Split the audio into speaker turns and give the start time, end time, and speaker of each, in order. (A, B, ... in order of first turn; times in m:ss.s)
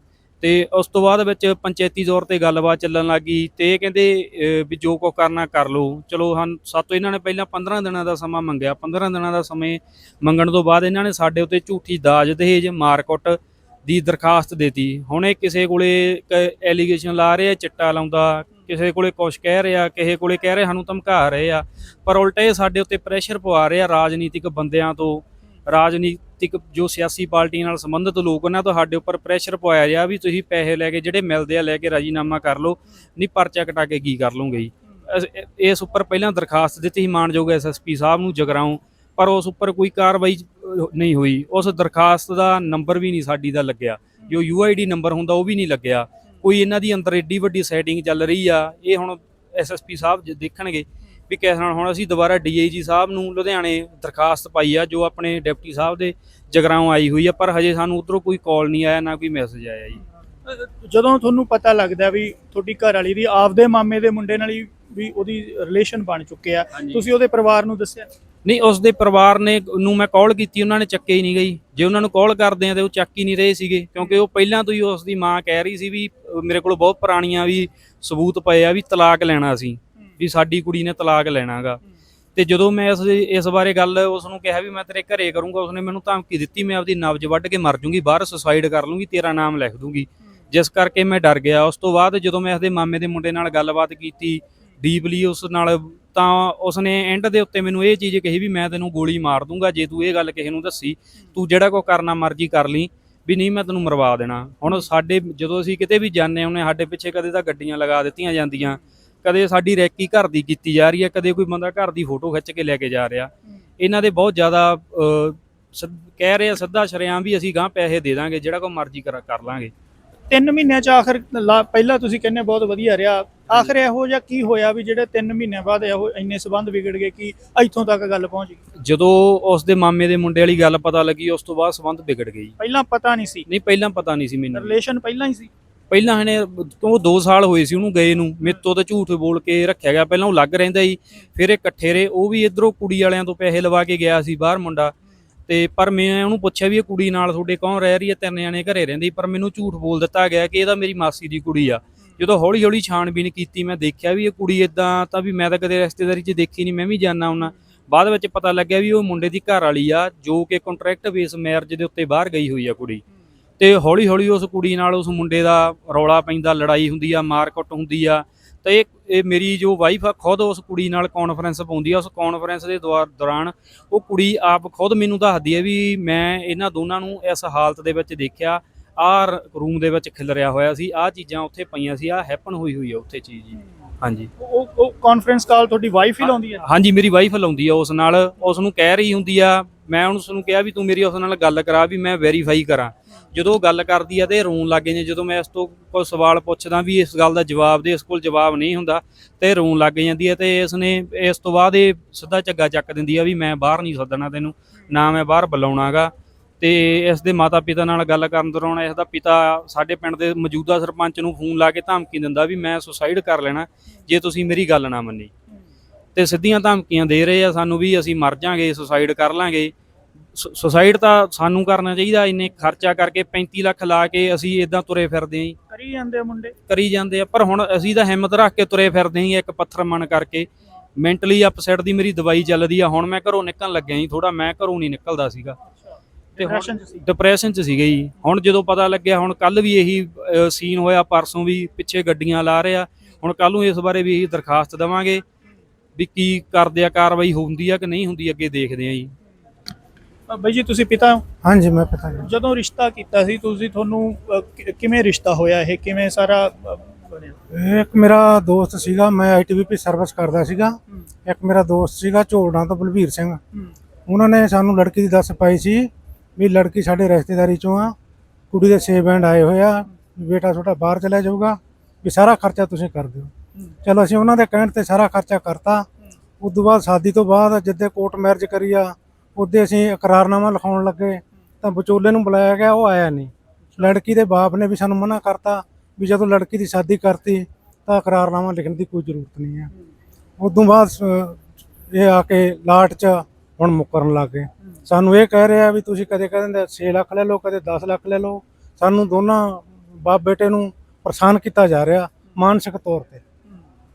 0:00.4-1:00.0 A
1:00.4-1:08.1 B
1:06.8-1:07.0 A
1:08.4-1:21.8 A
1:22.4-1:59.7 A
2:00.3-2:08.6 B
2:08.8-2:12.6 A
2:12.6-2:13.5 B
2:13.5-2:14.8 A
2:14.5-2:15.5 B
2:15.9-2:24.9 A
2:25.5-2:43.0 A
2:43.6-3:04.3 A
3:04.4-3:06.6 B
3:06.2-3:35.3 A
3:36.2-3:39.7 A
3:40.4-3:45.6 A
3:45.7-3:46.6 B
3:46.7-3:55.6 A
3:55.9-3:57.0 B
3:56.4-4:05.2 A
4:06.0-4:09.1 A
4:10.3-4:11.2 B
4:11.4-4:12.3 C
4:12.2-4:17.4 B
4:17.5-4:23.4 C
4:24.1-4:28.0 C
4:28.5-4:33.3 C
4:33.8-4:35.9 C
4:36.4-4:49.7 C
4:50.4-5:03.2 C